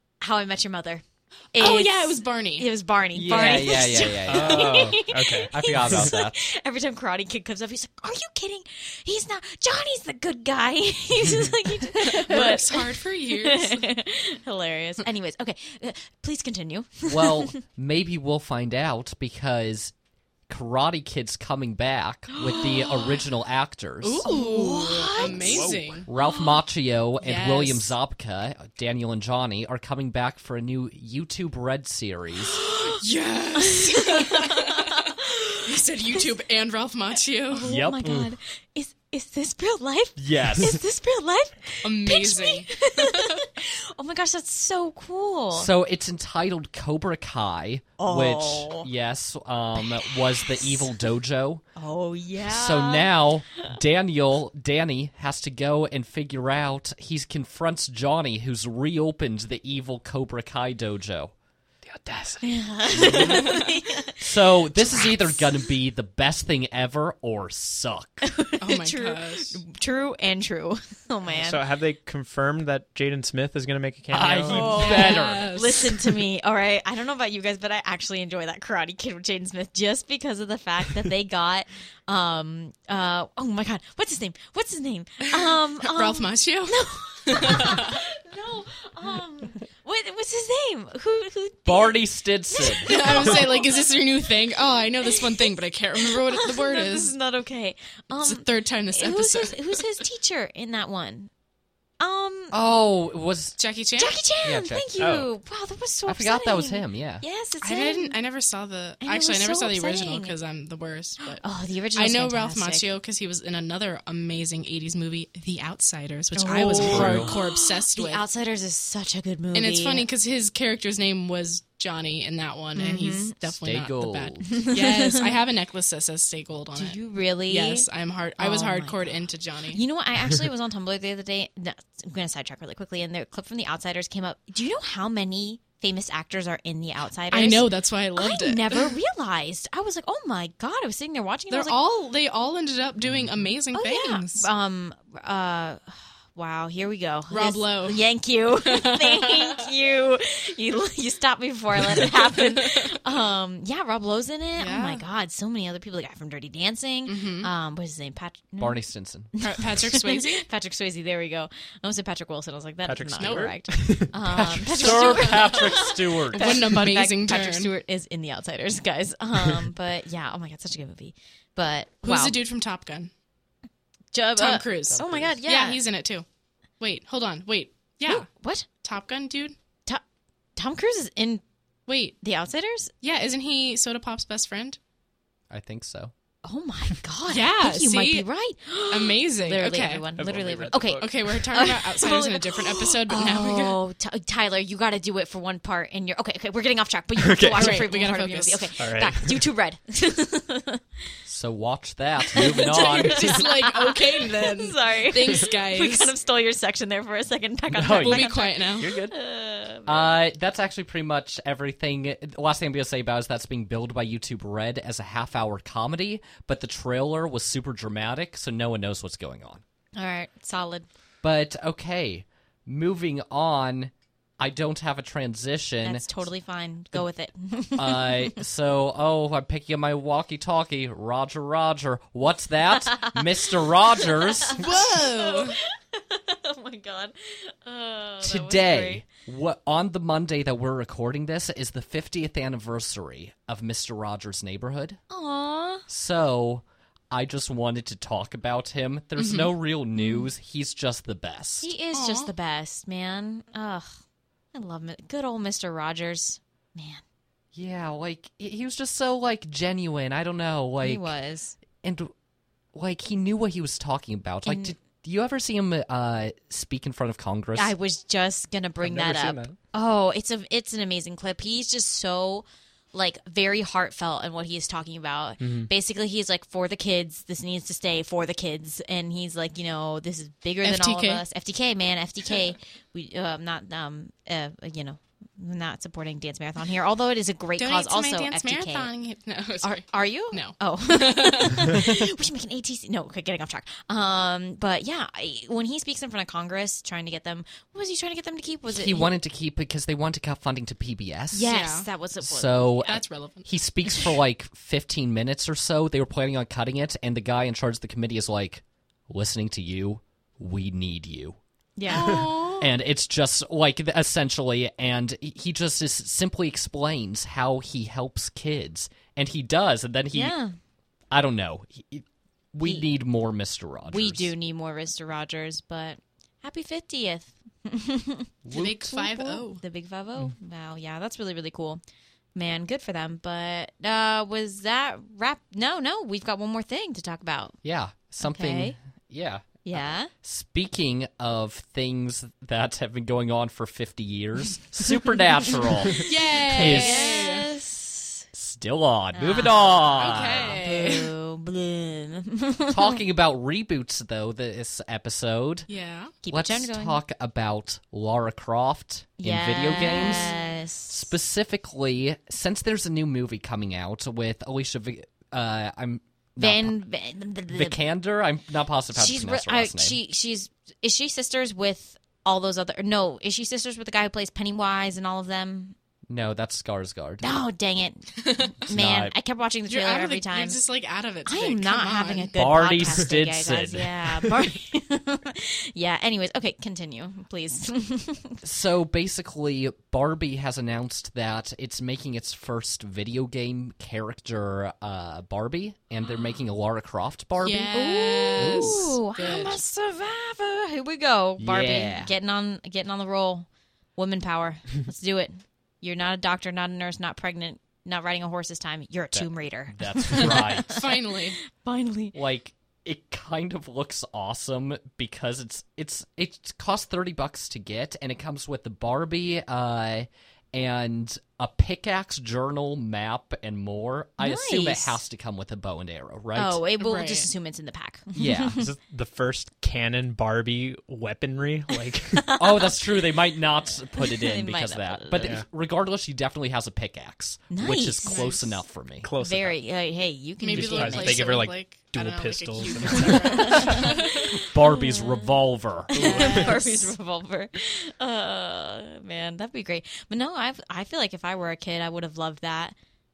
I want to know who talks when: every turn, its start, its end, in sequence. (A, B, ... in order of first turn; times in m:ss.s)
0:00.2-0:17.6 A
0:01.6-0:02.7 B
0:03.2-0:06.4 C
0:03.3-0:03.8 B
0:04.2-0:06.1 D
0:12.0-0:13.9 B
0:17.1-0:19.9 C
0:20.5-0:24.3 C
0:22.3-0:23.2 A
0:24.0-0:26.1 B
0:24.2-0:26.6 A
0:25.3-0:26.0 D
0:26.0-0:32.6 C
0:27.2-0:27.9 B
0:32.6-0:33.0 A
0:32.8-0:37.7 B
0:33.5-0:35.6 A
0:37.5-0:45.7 A
0:37.6-0:38.3 C
0:40.2-0:40.8 C
0:41.8-0:43.4 B
0:45.5-0:51.6 C
0:48.0-0:48.9 A
0:49.8-0:51.0 A
0:51.8-0:53.7 A
0:52.4-1:01.3 C
1:01.8-1:03.4 D
1:02.4-1:05.6 A
1:02.9-1:03.6 C
1:04.2-1:08.2 C
1:08.2-1:11.6 A
1:08.6-1:09.6 B
1:11.3-1:14.8 D
1:14.1-1:15.9 C
1:14.5-1:34.3 A
1:14.6-1:15.9 B
1:25.4-1:28.0 B
1:31.7-1:33.3 C
1:32.8-1:37.1 B
1:35.0-1:35.4 A
1:36.0-1:41.3 A
1:38.2-1:40.0 B
1:42.0-1:42.6 A
1:42.5-1:43.6 C
1:43.6-1:44.2 B
1:44.0-1:48.2 A
1:44.4-1:44.9 C
1:45.0-1:45.3 D
1:46.1-1:47.2 C
1:47.6-1:51.4 B
1:49.0-1:50.4 A
1:51.3-1:52.9 A
1:52.0-1:58.2 B
1:56.4-2:00.1 A
1:56.7-1:57.3 C
1:59.5-2:09.8 B
2:02.8-2:03.4 A
2:03.5-2:04.5 C
2:04.5-2:05.3 A
2:06.8-2:21.8 A
2:17.3-2:19.0 B
2:21.5-2:24.5 B
2:23.0-2:23.5 D
2:23.7-2:52.4 A
2:27.3-2:28.0 B
2:28.6-2:29.6 B
2:32.6-2:32.9 B
2:34.6-2:35.0 B
2:37.1-2:37.5 B
2:38.6-2:39.3 C
2:39.4-2:40.5 B
2:42.9-2:44.1 D
2:43.2-2:43.5 B
2:44.2-2:46.7 C
2:44.8-2:45.7 B
2:46.3-2:47.7 B
2:52.0-2:53.1 B
2:54.1-2:55.8 A
2:54.4-2:56.2 B
2:54.9-2:55.4 D
2:56.8-2:58.3 B
2:58.1-2:58.7 A
2:58.8-2:59.6 B
3:00.6-3:01.4 A
3:01.9-3:02.2 B
3:02.2-3:02.9 A
3:03.0-3:04.8 B
3:05.5-3:06.1 C
3:06.4-3:20.8 A
3:07.3-3:08.3 B
3:08.9-3:10.1 B
3:10.2-3:11.4 D
3:11.0-3:13.8 B
3:17.2-3:17.8 D
3:17.5-3:18.7 B
3:18.8-3:19.4 D
3:21.3-3:23.4 C
3:22.3-3:30.2 A
3:22.4-3:26.1 B
3:27.8-3:29.2 C
3:27.9-3:28.9 B
3:29.8-3:39.6 C
3:40.0-3:40.9 A
3:41.2-3:46.2 C
3:45.8-3:48.4 A
3:47.8-3:54.6 C
3:52.8-3:59.0 A
3:54.6-3:55.6 B
3:58.2-4:05.0 C
4:05.1-4:05.9 A
4:05.9-4:11.7 C
4:09.2-4:09.5 B
4:10.0-4:10.3 A
4:11.6-4:14.0 A
4:11.9-4:12.3 B
4:14.5-4:17.0 A
4:17.5-4:21.1 C
4:20.8-4:21.6 A
4:21.8-4:22.1 C
4:22.7-4:27.7 C
4:24.4-4:24.8 A
4:27.6-4:48.9 A
4:28.8-4:29.6 D
4:35.4-4:35.7 D
4:40.6-4:41.2 B
4:47.6-4:51.9 B
4:49.6-4:59.1 A
4:58.7-5:01.5 C
5:01.3-5:03.0 A
5:01.4-5:01.9 B
5:02.2-5:11.4 C
5:02.8-5:03.6 B
5:11.8-5:12.3 A
5:11.9-5:12.7 B
5:12.0-5:20.4 C
5:20.1-5:20.5 A
5:21.1-5:24.3 C
5:23.9-5:28.3 A
5:28.5-5:28.9 C
5:28.5-5:29.6 B
5:28.9-5:31.8 A
5:32.4-5:37.6 A
5:37.6-5:47.3 C
5:38.2-5:38.8 A
5:39.6-5:40.1 A
5:46.0-5:47.5 B
5:46.5-5:48.2 A
5:48.3-5:50.6 C
5:49.1-5:53.0 A
5:50.0-5:51.1 B
5:52.7-5:55.7 C
5:55.7-5:56.1 B
5:56.2-5:57.0 A
5:56.3-6:00.3 C
5:59.2-6:01.1 A
5:59.9-6:00.3 B
6:00.9-6:06.8 C
6:06.4-6:07.8 A
6:07.5-6:10.0 C
6:08.9-6:15.8 A
6:16.1-6:17.3 C
6:17.2-6:20.6 A
6:18.2-6:18.5 B
6:18.7-6:19.1 C
6:19.7-6:22.3 B
6:21.3-6:28.4 A
6:22.4-6:24.4 C
6:28.4-6:37.8 C
6:37.4-6:39.6 B
6:37.7-6:52.2 A
6:38.4-6:38.9 C
6:41.4-6:42.1 C
6:49.1-6:50.8 C
6:50.2-6:51.4 B
6:52.1-7:06.6 C
7:04.2-7:05.0 A
7:06.4-7:08.7 A
7:06.8-7:07.3 B
7:08.2-7:08.6 C
7:08.6-7:12.3 D
7:12.2-7:13.2 A
7:12.4-7:19.1 C
7:14.0-7:15.4 A
7:15.2-7:15.4 D
7:17.5-7:18.4 A
7:18.0-7:18.6 B
7:19.0-7:19.6 D
7:19.2-7:21.4 A
7:20.4-7:24.4 B
7:20.5-7:23.9 D
7:23.0-7:32.8 A
7:24.4-7:26.6 C
7:25.9-7:26.5 D
7:26.0-7:26.6 B